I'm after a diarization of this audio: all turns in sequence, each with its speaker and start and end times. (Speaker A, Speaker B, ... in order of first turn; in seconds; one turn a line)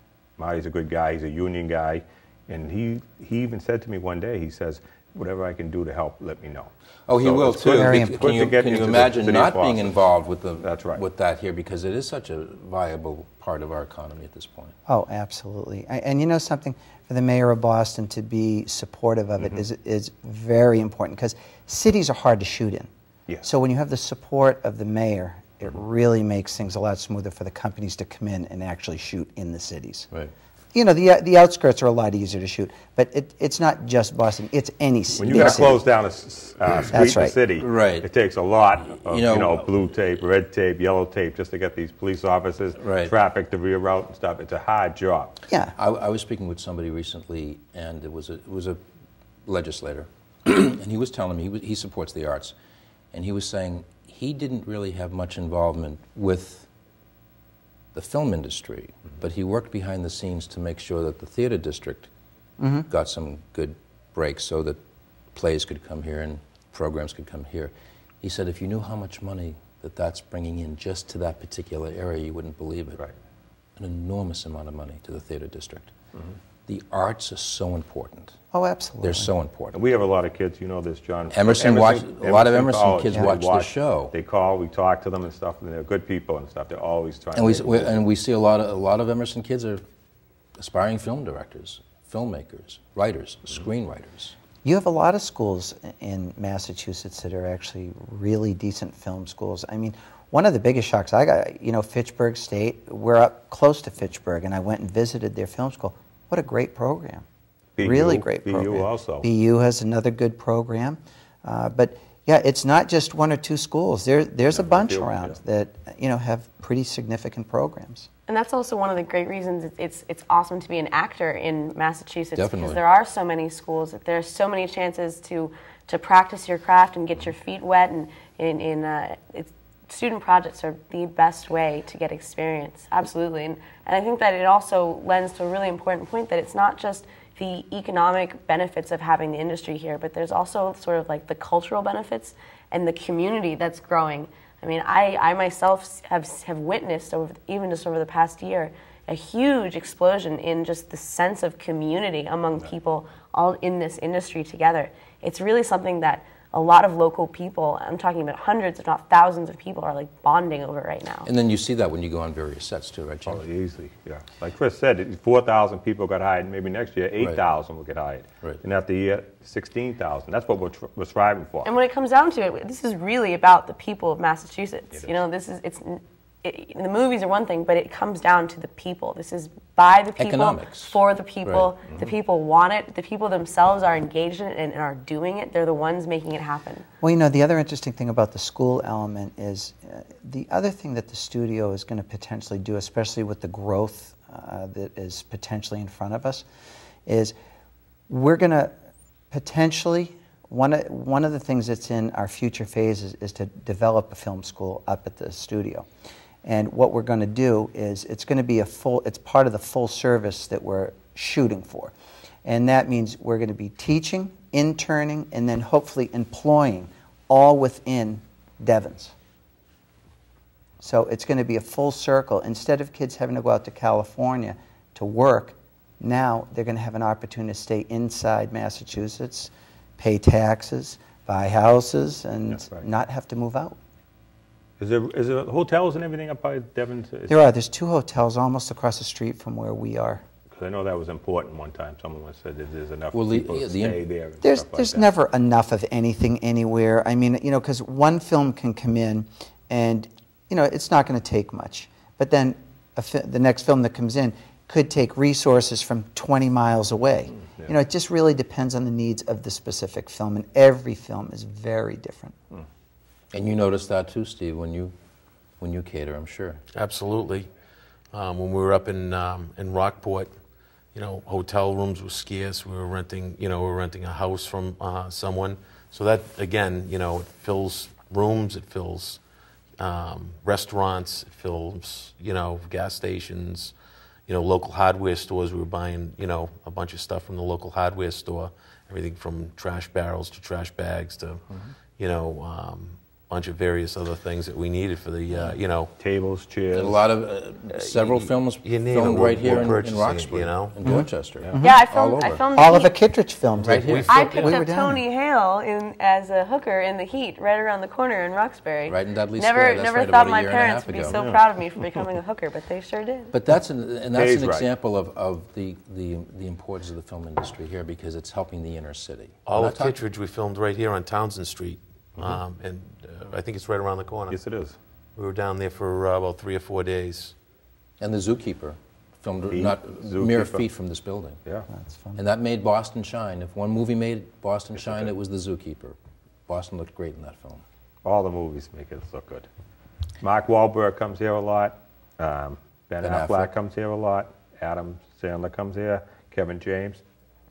Speaker A: 0.4-10.0
Speaker B: 7.1-14.8
Speaker C: 7.7-8.2
Speaker A: 10.6-11.1
Speaker C: 14.9-22.9
Speaker C: 23.4-30.1
Speaker C: 30.7-35.8
Speaker A: 35.2-45.4
Speaker B: 35.2-35.8
Speaker C: 36.9-37.4
Speaker B: 37.6-38.1
Speaker B: 38.9-39.7
Speaker B: 42.8-43.1
Speaker C: 45.5-45.7
Speaker B: 45.8-48.8
Speaker B: 49.5-52.5
Speaker B: 53.1-56.7
Speaker B: 57.9-62.1
Speaker C: 62.6-62.9
Speaker B: 62.9-64.8
Speaker B: 65.3-73.0
Speaker B: 73.8-75.9
Speaker B: 76.7-78.4
Speaker C: 78.5-79.3
Speaker B: 79.0-79.8
Speaker A: 79.7-88.0
Speaker B: 81.3-84.1
Speaker B: 87.3-89.8
Speaker B: 90.6-94.3
Speaker C: 94.6-107.2
Speaker A: 107.8-109.3
Speaker C: 107.8-118.1
Speaker A: 114.5-115.4
Speaker D: 118.3-161.3
Speaker B: 122.3-122.8
Speaker B: 161.2-163.4
Speaker A: 163.2-171.7
Speaker D: 171.7-186.8
Speaker B: 180.2-181.8
Speaker A: 181.8-182.1
Speaker C: 187.0-196.4
Speaker C: 197.1-197.4
Speaker C: 198.1-198.7
Speaker C: 199.3-205.9
Speaker C: 206.4-211.9
Speaker C: 212.4-219.1
Speaker C: 220.8-233.8
Speaker A: 232.5-232.8
Speaker A: 234.8-237.4
Speaker C: 237.3-240.2
Speaker A: 240.6-245.1
Speaker B: 243.1-244.0
Speaker C: 244.4-262.4
Speaker A: 257.4-257.7
Speaker B: 263.3-264.9
Speaker B: 265.6-266.6
Speaker E: 266.7-267.5
Speaker E: 268.1-270.3
Speaker E: 270.9-279.2
Speaker E: 279.8-283.7
Speaker E: 284.3-291.4
Speaker E: 292.0-295.9
Speaker A: 295.5-297.1
Speaker B: 296.7-302.4
Speaker E: 297.8-300.8
Speaker C: 300.8-301.8
Speaker D: 301.6-302.9
Speaker C: 302.5-305.0
Speaker B: 303.6-304.1
Speaker E: 303.8-304.6
Speaker D: 304.1-313.3
Speaker B: 308.9-311.2
Speaker A: 311.1-312.0
Speaker B: 313.3-320.0
Speaker A: 314.1-314.7
Speaker E: 319.5-324.4
Speaker A: 324.3-324.8
Speaker E: 325.2-327.4
Speaker B: 328.0-331.4
Speaker A: 329.5-330.7
Speaker C: 331.7-332.2
Speaker B: 332.2-336.0
Speaker A: 334.8-335.1
Speaker B: 336.5-337.6
Speaker A: 338.0-339.5
Speaker A: 340.2-347.0
Speaker B: 343.0-343.5